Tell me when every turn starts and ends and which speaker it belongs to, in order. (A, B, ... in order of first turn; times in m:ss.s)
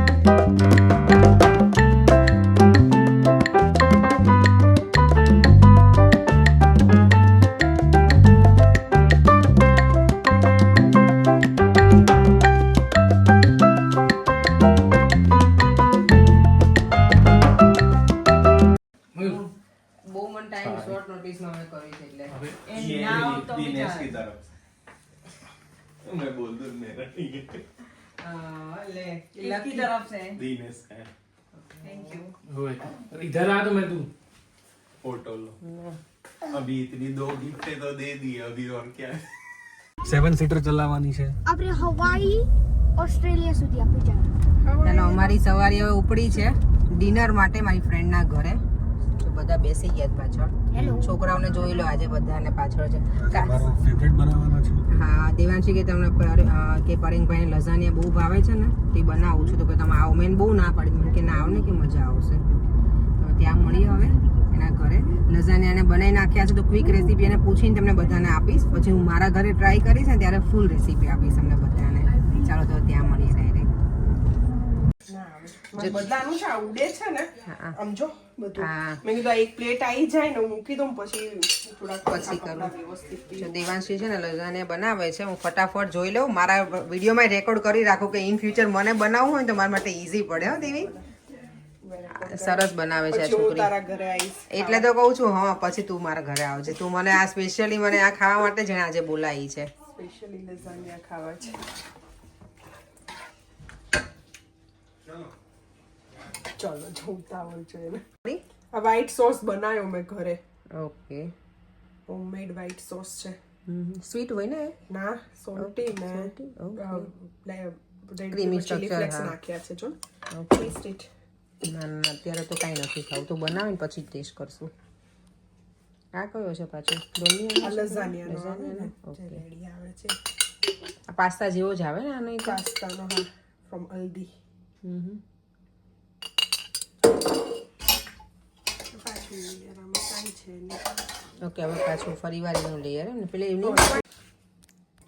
0:19.1-0:19.5 A
0:20.1-0:22.4 B
0:22.7-0:24.1 C
0:22.7-0:24.4 D
0:26.0-0:27.6 D
0:28.2-0:29.9 B
0:29.4-0:30.4 C
0:30.4-0:31.1 D
0:31.6-0:32.3 B
0:31.8-0:32.2 C
0:32.5-0:34.1 A
0:35.0-0:35.5 D
0:35.6-0:36.0 B
0:36.5-0:39.2 D
0:40.0-0:41.4 E
0:41.5-0:44.3 F
0:44.6-0:45.4 G
0:44.8-0:48.6 B
0:49.2-0:53.6 B
0:50.7-0:51.0 F
0:53.2-0:54.9 E
0:54.9-1:02.4 B
1:03.2-1:13.7 B
1:15.1-1:23.5 G
1:17.5-1:17.8 B
1:18.6-1:19.0 B
1:22.1-1:22.7 B
1:23.4-1:30.9 B
1:31.8-1:34.9 G
1:32.2-1:33.7 B
1:34.5-1:39.7 B
1:40.0-1:41.6 G
1:46.5-1:48.0 G
1:48.7-1:50.4 G
1:50.8-1:51.3 B
1:52.1-1:53.4 G
1:53.7-1:54.8 B
1:54.9-2:00.0 G
1:55.6-1:57.1 B
1:58.3-1:59.3 B
2:00.4-2:00.7 B
2:00.5-2:01.1 G
2:01.7-2:04.7 B
2:06.2-2:09.2 B
2:07.6-2:10.2 G
2:11.1-2:12.6 B
2:12.5-2:14.3 G
2:14.8-2:15.2 B
2:18.9-2:20.8 G
2:21.4-2:24.0 B
2:23.7-2:24.0 G